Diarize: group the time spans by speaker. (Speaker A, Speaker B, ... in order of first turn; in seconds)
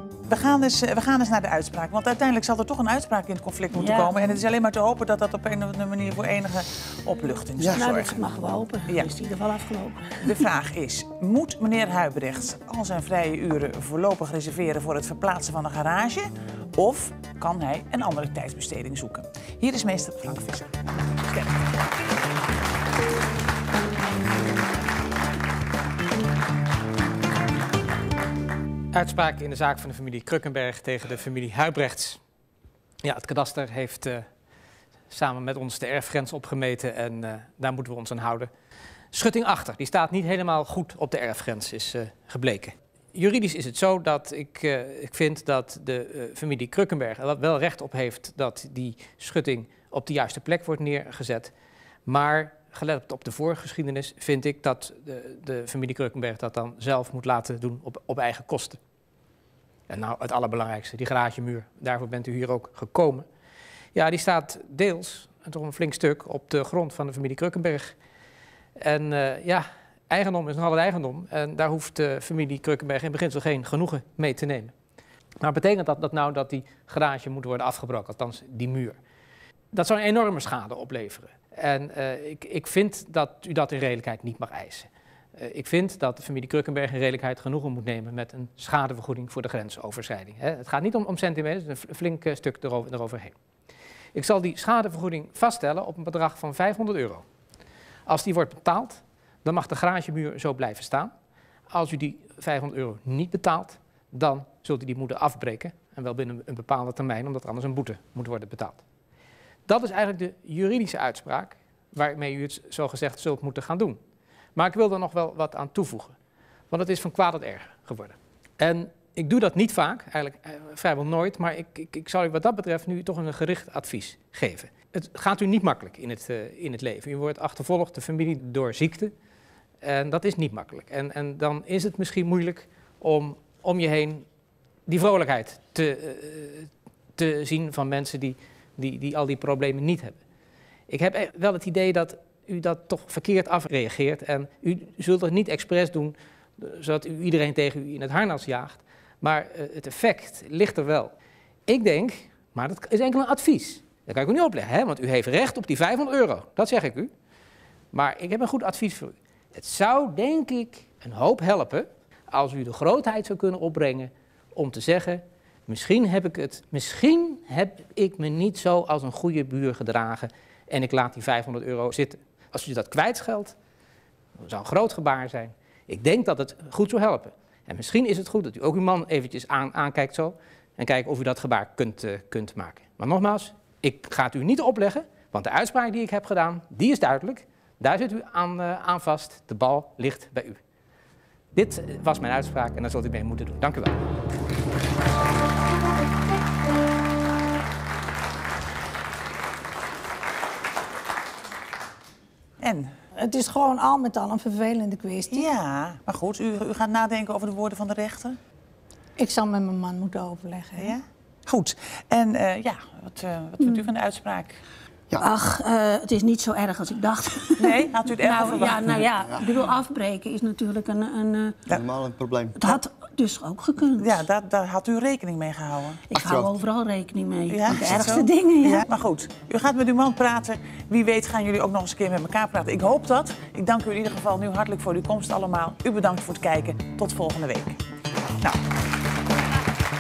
Speaker A: 0.3-8.2, 10.2-21.6, 202.6-202.9, 205.3-208.4, 210.8-214.6, 217.6-219.0, 223.9-226.0, 227.5-237.8
Speaker B: 3.7-4.1, 7.7-10.4, 213.6-213.9, 215.2-221.6, 222.6-224.2, 226.1-228.9
Speaker C: 7.6-7.9, 219.2-219.5, 221.7-222.6, 226.1-226.5
Speaker D: 28.9-32.2, 33.0-34.3, 35.1-38.5, 39.1-51.5, 52.1-58.8, 59.9-63.3, 63.9-67.9, 68.8-74.7, 75.4-79.0, 79.7-93.3, 94.1-97.2, 98.1-101.1, 101.7-108.8, 109.7-114.0, 114.6-116.1, 116.7-129.1, 129.8-134.2, 134.9-140.2, 140.9-151.1, 151.7-157.1, 157.9-173.6, 174.4-190.6, 191.6-193.9
Speaker E: 203.2-205.5, 209.2-211.0